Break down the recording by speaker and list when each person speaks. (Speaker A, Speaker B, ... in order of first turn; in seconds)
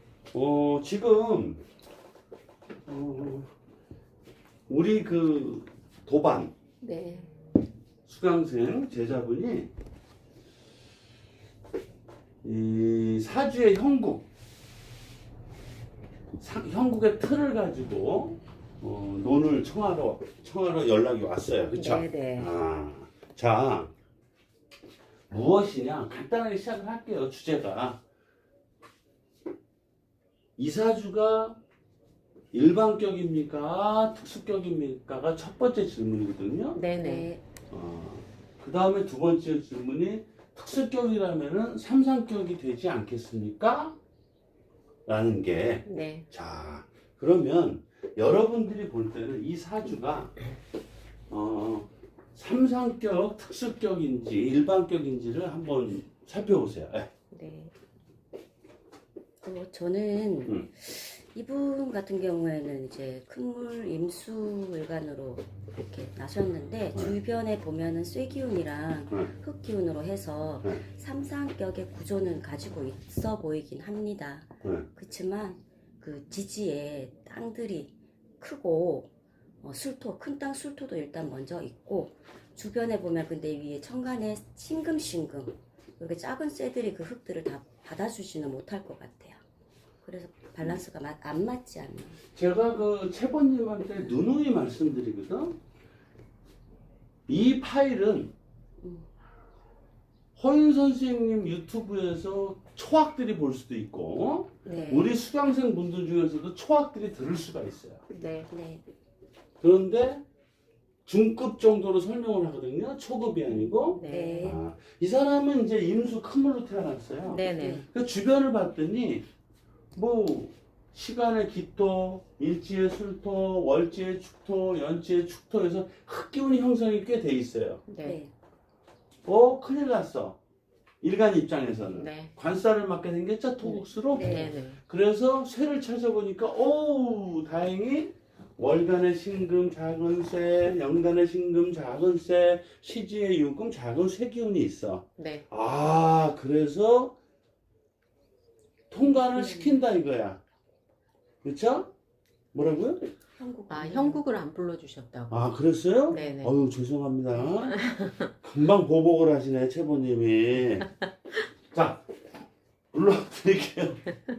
Speaker A: 0.3-1.6, 2.9-3.5, 4.7-6.5, 8.1-9.7, 12.4-14.3, 16.4-23.9, 25.3-28.0, 30.6-31.6, 32.5-36.8, 37.7-44.0, 45.1-50.4, 51.3-57.1, 92.4-95.6, 97.3-98.3, 100.4-108.0, 109.6-110.2, 111.1-119.3, 120.0-127.8, 129.3-130.4, 131.0-147.2, 148.9-150.4, 151.4-151.9, 152.5-153.0, 155.3-160.9, 161.7-162.1, 162.9-164.0
Speaker B: 6.8-7.3, 21.7-22.5, 36.8-37.3, 45.9-46.3, 57.3-57.7, 104.7-105.1, 108.1-108.5, 113.7-114.5, 117.2-117.8, 127.9-128.2, 131.9-132.3, 134.2-134.8, 145.2-145.4, 153.7-155.5, 156.1-156.6, 157.5-158.2
Speaker C: 37.0-37.4, 59.4-79.1, 79.6-89.4, 90.0-92.2, 98.8-99.1, 104.7-105.1, 108.5-108.8, 114.0-114.6, 117.5-117.9, 128.0-128.3, 134.1-134.5, 149.0-149.8, 153.4-154.2